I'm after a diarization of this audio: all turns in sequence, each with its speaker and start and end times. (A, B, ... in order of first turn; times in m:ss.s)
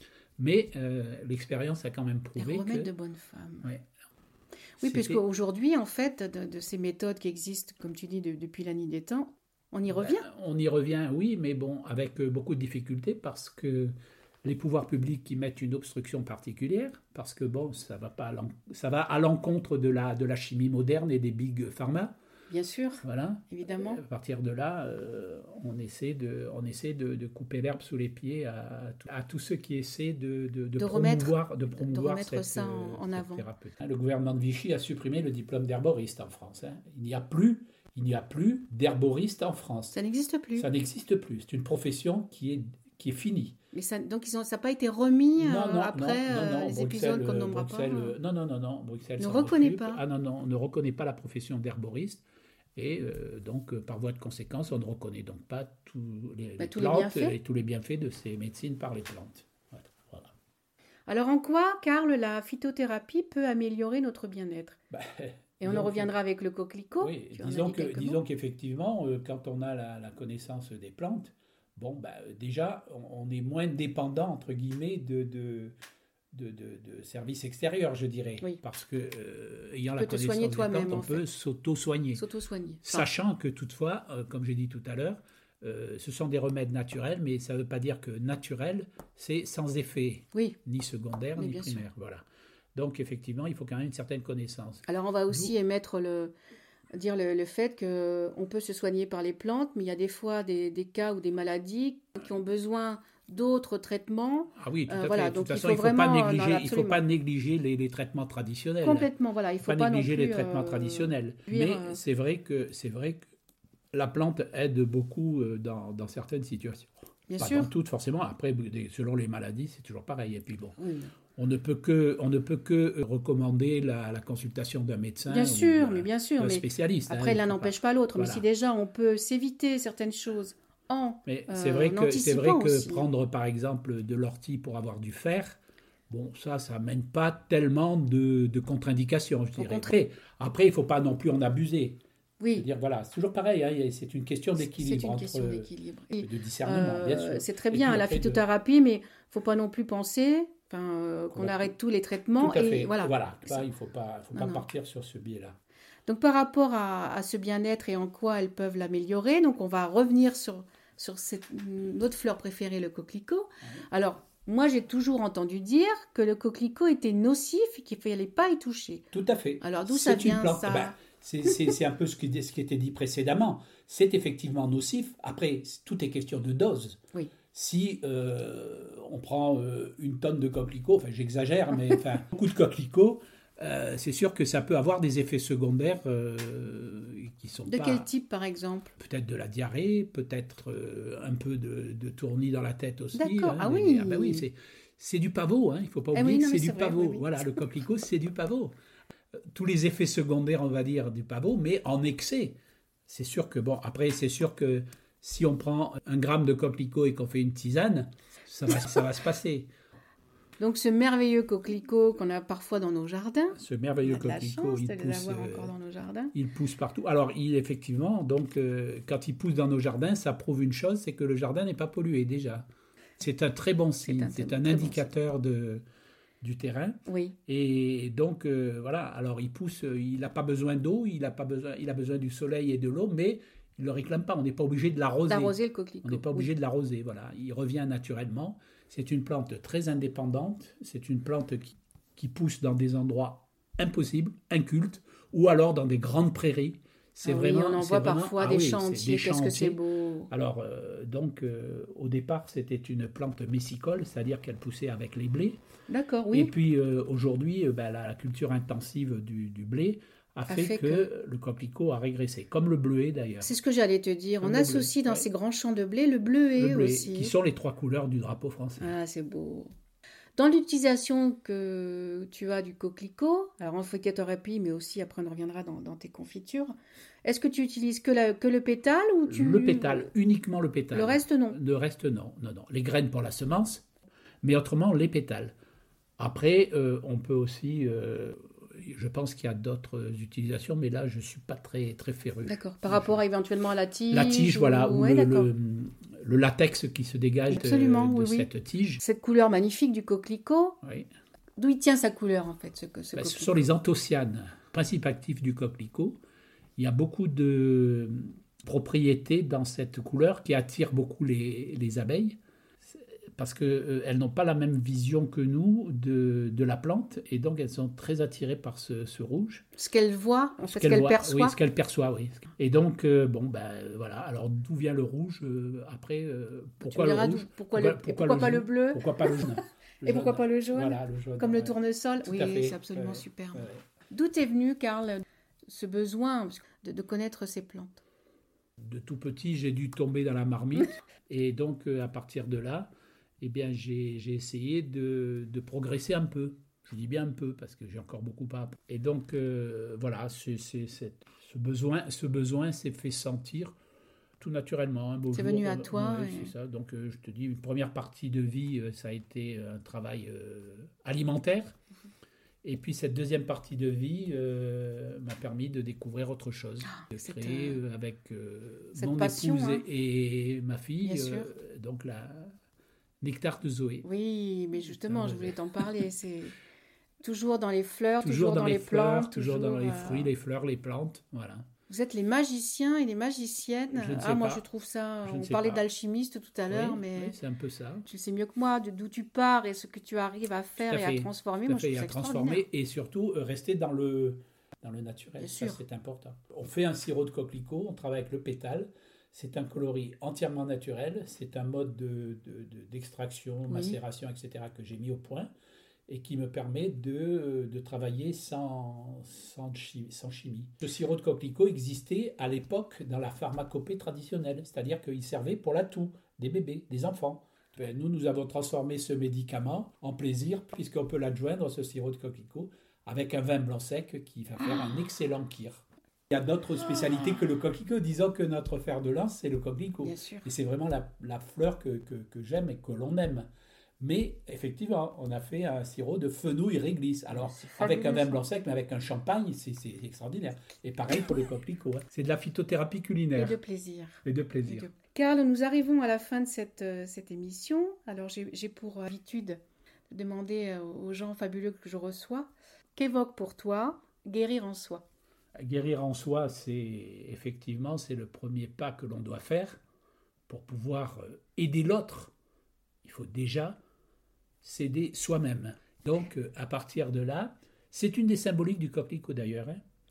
0:00.4-0:02.9 A
0:02.4-0:03.7 B
0:04.8-0:10.2 B
0:04.8-0:05.2 A
0:09.9-0:13.9 A
0:14.4-0:22.1 A
0:22.5-0:24.0 B
0:23.0-0:40.0 A
0:30.8-0:33.5 B
0:39.9-0:40.7 B
0:40.6-0:43.6 A
0:43.7-0:48.2 B
0:45.4-0:52.2 A
0:49.2-0:50.0 B
0:52.8-1:00.3 A
0:56.6-0:57.4 B
1:01.1-1:04.8 B
1:04.9-1:06.1 A
1:05.6-1:08.2 B
1:07.0-1:15.8 A
1:16.3-1:22.2 A
1:20.0-1:21.3 B
1:22.2-1:23.1 B
1:22.8-1:32.2 A
1:31.4-1:31.8 B
1:32.8-1:35.5 A
1:34.9-1:36.3 B
1:36.9-1:47.0 B
1:44.6-1:49.1 A
1:48.8-1:52.0 B
1:49.6-1:53.2 A
1:53.9-2:00.8 A
1:57.3-1:57.7 B
2:00.8-2:01.1 B
2:01.4-2:08.4 A
2:05.3-2:13.1 B
2:11.3-2:15.6 A
2:16.1-2:22.0 A
2:19.6-2:19.9 B
2:22.4-2:22.7 B
2:22.6-2:25.7 A
2:24.6-2:33.7 B
2:26.2-2:28.4 A
2:31.3-2:31.7 A
2:32.4-2:35.6 A
2:34.3-2:34.7 B
2:36.1-2:49.1 B
2:49.1-2:57.0 A
2:49.6-2:51.0 B
2:57.5-3:08.1 A
3:07.7-3:09.0 B
3:09.0-3:18.7 A
3:13.2-3:14.5 B
3:16.1-3:17.4 B
3:19.5-3:29.7 A
3:30.6-3:36.3 B
3:33.6-3:35.7 A
3:36.3-3:42.7 A
3:43.2-3:45.8 A
3:44.0-3:45.1 B
3:46.4-4:15.6 A
3:47.1-3:47.4 B
3:55.3-3:56.5 B
4:07.2-4:10.3 B
4:15.9-4:16.5 B
4:16.3-4:23.5 A
4:20.5-4:21.1 B
4:23.4-4:27.4 B
4:24.4-4:25.3 A
4:26.6-4:28.9 A
4:28.8-4:29.7 B
4:30.4-4:40.1 B
4:39.3-4:43.8 A
4:40.9-4:41.6 B
4:44.4-4:45.6 A
4:46.2-4:53.2 A
4:52.4-4:55.5 B
4:54.1-4:59.0 A
4:57.5-4:58.5 B
4:59.0-5:00.8 B
5:00.8-5:01.1 A
5:01.6-5:03.7 B
5:03.1-5:06.2 A
5:06.8-5:12.4 A
5:12.9-5:19.6 A
5:19.8-5:21.6 B
5:20.7-5:33.8 A
5:26.9-5:29.5 B
5:30.0-5:38.0 B
5:38.8-5:42.9 A
5:43.4-5:53.7 A
5:54.4-6:01.8 A
5:55.3-5:56.5 B
6:02.6-6:12.5 A
6:06.8-6:07.8 B
6:09.0-6:09.9 B
6:11.0-6:11.5 B
6:13.2-6:14.1 A
6:14.0-6:16.6 B
6:14.8-6:15.8 A
6:17.2-6:20.3 B
6:18.2-6:21.7 A
6:21.9-6:27.4 B
6:23.9-6:24.6 A
6:25.2-6:25.8 A
6:26.7-6:28.1 A
6:28.1-6:32.6 B
6:30.9-6:45.5 A
6:35.4-6:35.8 B
6:43.7-6:44.0 B
6:46.1-7:13.5 A
7:10.0-7:10.5 B
7:14.0-7:23.6 A
7:17.4-7:18.5 B
7:23.3-7:35.0 B
7:24.2-7:24.9 A
7:35.6-7:39.8 A
7:40.5-7:42.3 A
7:43.0-7:43.8 A
7:44.6-7:49.8 A